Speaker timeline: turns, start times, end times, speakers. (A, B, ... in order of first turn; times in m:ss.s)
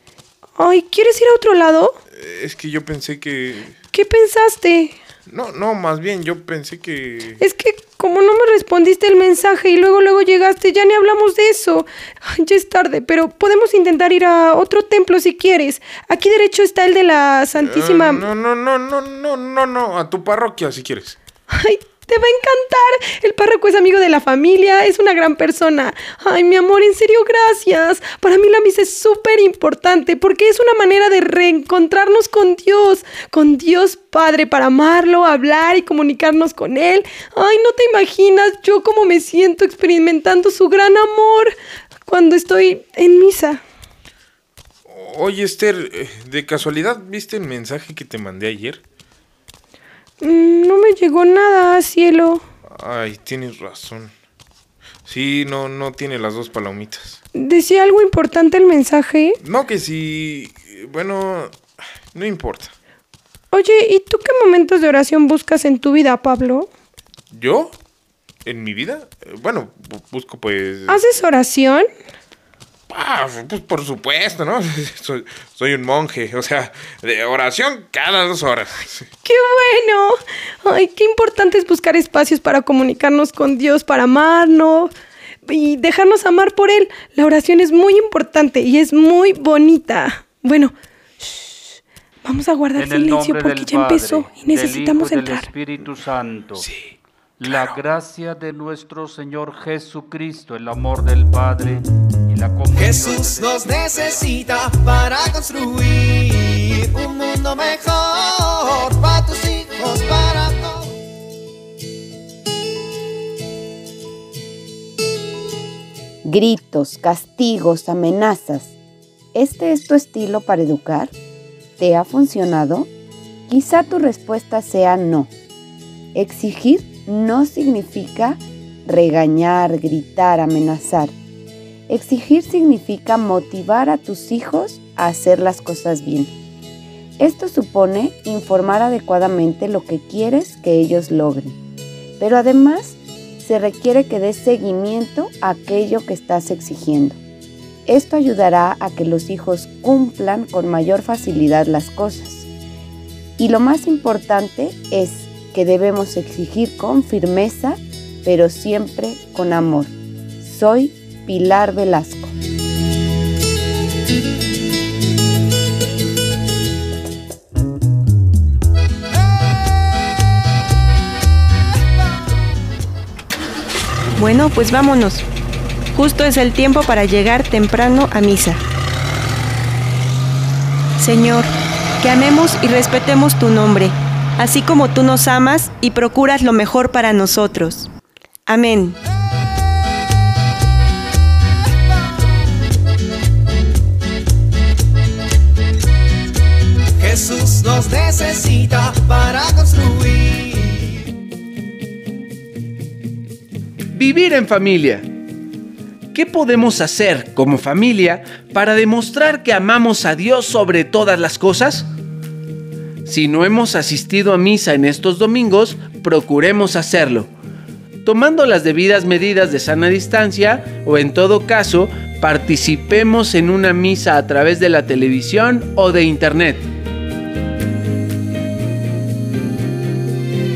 0:00.6-0:02.0 A
0:02.1-0:03.7 B
0:03.9-0:04.9 A
0:05.3-0:07.4 B
0:07.4-0:18.3 A
0:17.6-0:21.2 B
0:21.5-0:41.5 A
0:42.1-0:43.6 A
0:44.9-0:48.8 B
0:50.2-0:52.4 A
0:52.7-0:54.1 B
0:55.0-0:57.2 B
0:57.3-0:59.4 A
0:59.4-1:01.6 B
1:02.1-1:02.7 B
1:03.5-1:06.7 A
1:07.3-1:07.7 B
1:08.4-1:11.0 B
1:10.9-1:11.8 A
1:12.9-1:19.0 B
1:19.2-1:24.9 A
1:25.4-1:31.5 A
1:32.2-1:35.5 A
1:32.8-1:36.7 C
1:36.6-1:36.9 B
1:37.4-1:44.3 C
1:37.5-1:37.7 B
1:42.7-1:50.9 D
1:56.2-1:58.7 E
1:59.3-2:01.1 E
2:01.8-2:02.9 E
2:03.5-2:05.3 E
2:06.1-2:11.2 E
2:11.9-2:16.3 E
2:17.2-2:21.6 E
2:22.2-2:27.2 E
2:27.8-2:32.5 E
2:33.4-2:42.3 E
2:54.2-2:55.2 F
2:55.9-2:58.6 F
3:01.0-3:07.9 F
3:08.5-3:09.0 F
3:17.0-3:20.9 D
3:23.9-3:25.0 G
3:26.1-3:31.9 G
3:33.0-3:37.3 G
3:38.0-3:46.7 G